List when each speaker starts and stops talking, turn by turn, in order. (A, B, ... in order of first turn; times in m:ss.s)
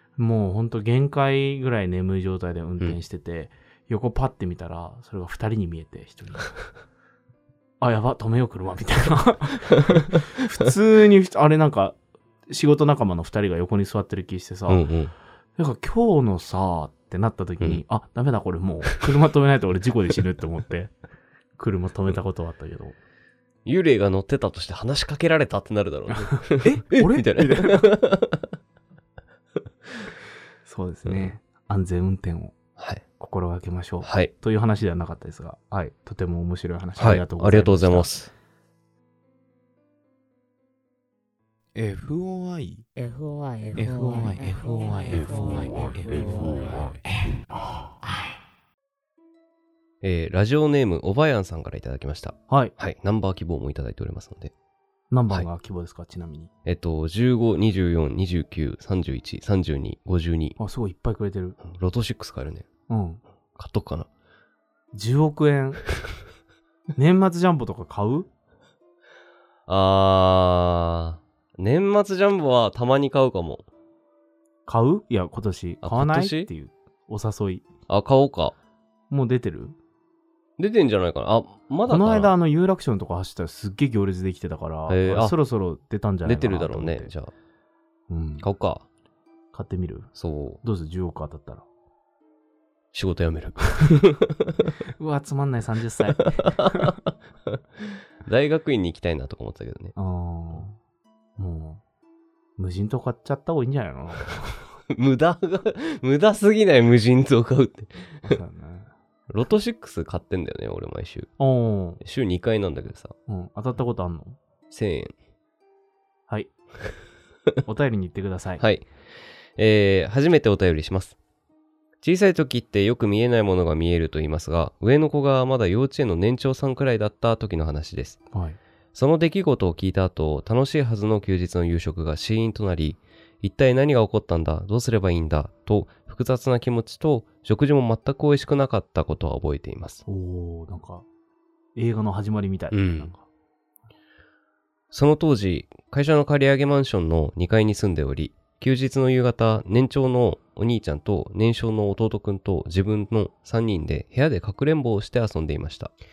0:00.2-0:06.6 A
0:07.8-0:12.0 A
0:12.5-0:14.9 A
0:14.7-0:15.1 B
0:15.6-0:20.9 A
0:21.6-0:23.0 A
0:23.6-0:28.6 B
0:26.1-0:27.9 A
0:30.6-0:32.6 A
0:31.1-0:31.3 B
0:32.8-0:33.0 B
0:33.2-0:38.1 A
0:34.0-0:34.3 B
0:37.0-0:38.3 B
0:41.8-0:42.9 A
0:43.8-0:47.0 C
0:43.8-0:44.3 A
0:50.0-0:54.5 B
0:52.5-0:52.7 A
0:55.1-0:56.5 A
0:56.7-1:00.6 B
1:00.6-1:01.6 A
1:01.6-1:02.7 B
1:02.9-1:03.2 A
1:03.6-1:04.1 B
1:04.9-1:05.8 A
1:07.0-1:08.3 A
1:09.7-1:13.7 B
1:14.7-1:17.6 A
1:15.8-1:16.5 B
1:17.9-1:18.6 B
1:19.1-1:19.8 A
1:20.6-1:22.3 B
1:21.9-1:27.1 A
1:24.9-1:25.4 B
1:26.2-1:27.3 B
1:28.1-1:28.4 A
1:28.4-1:28.8 B
1:29.5-1:30.1 A
1:30.2-1:30.6 B
1:30.6-1:31.6 A
1:32.9-1:34.7 B
1:35.0-1:37.0 A
1:36.4-1:36.9 B
1:38.2-1:40.0 B
1:40.0-1:40.8 A
1:41.4-1:41.8 A
1:42.6-1:44.7 A
1:44.9-1:48.3 B
1:48.2-1:48.9 A
1:49.3-1:51.3 B
1:51.4-1:52.0 A
1:52.0-1:53.1 B
1:53.3-1:54.4 A
1:54.7-1:55.1 B
1:57.6-1:58.6 A
1:58.6-1:58.9 B
1:59.6-2:01.2 B
2:02.0-2:08.2 B
2:08.3-2:08.6 A
2:09.0-2:20.0 B
2:20.1-2:21.1 A
2:21.8-2:23.3 A
2:22.7-2:23.1 B
2:24.9-2:35.9 B